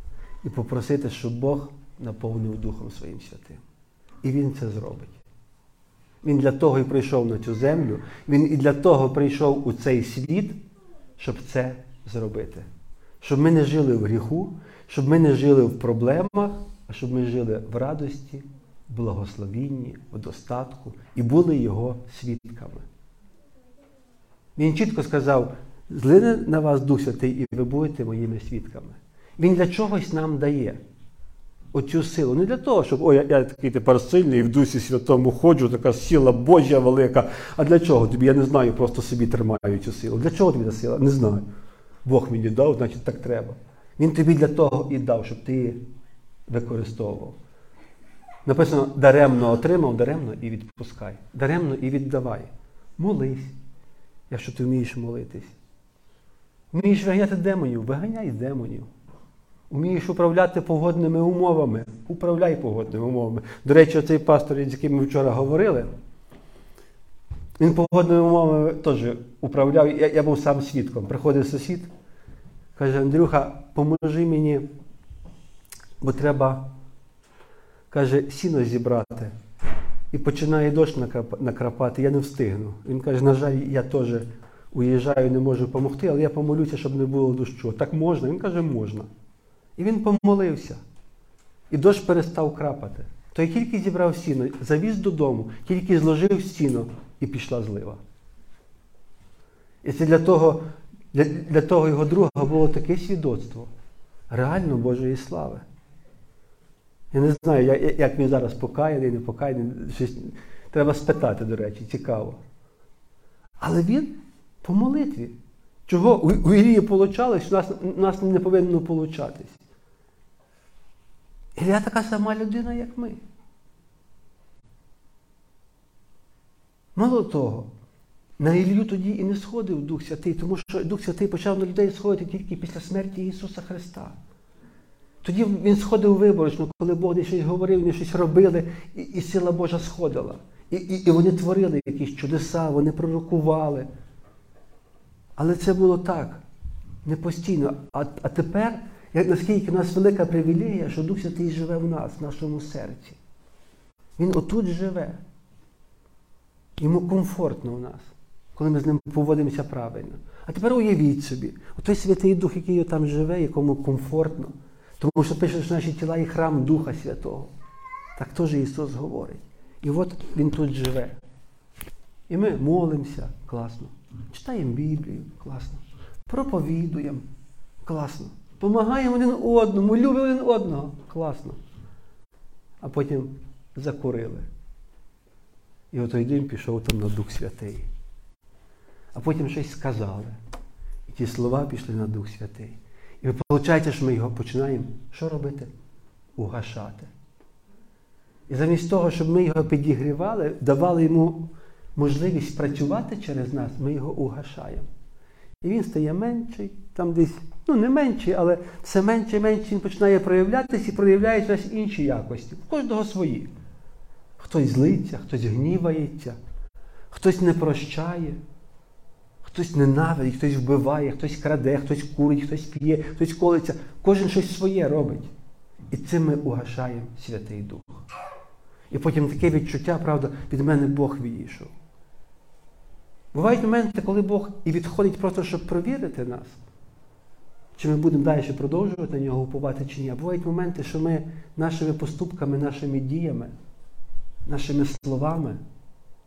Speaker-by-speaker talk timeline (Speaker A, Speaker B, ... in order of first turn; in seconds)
Speaker A: 0.4-3.6, 4.2-5.2, 6.2-10.6, 11.2-12.7, 13.2-22.9, 24.6-30.8, 31.7-41.4, 42.0-45.9, 46.5-47.4, 48.5-53.5, 54.3-55.5, 56.7-58.9, 59.7-65.9, 67.6-71.9, 72.8-74.7, 76.0-76.7, 77.9-79.3, 80.1-89.1, 89.8-90.8, 91.7-98.0, 99.8-103.7, 104.3-105.7, 107.1-112.4, 113.6-119.6, 121.6-123.2, 127.0-127.7, 128.4-134.2, 135.2-143.9, 145.4-146.4, 147.0-153.2, 154.2-155.2, 156.8-167.5, 168.2-171.2, 172.3-177.3, 177.8-181.6, 182.8-184.5, 185.9-187.9, 189.1-190.4, 191.1-195.7, 196.4-197.1, 198.5-204.9, 205.6-213.5, 214.4-216.4, 217.1-218.4, 219.4-225.3, 225.9-228.1, 228.9-231.7, 233.3-236.6, 237.8-243.5, 244.5-245.6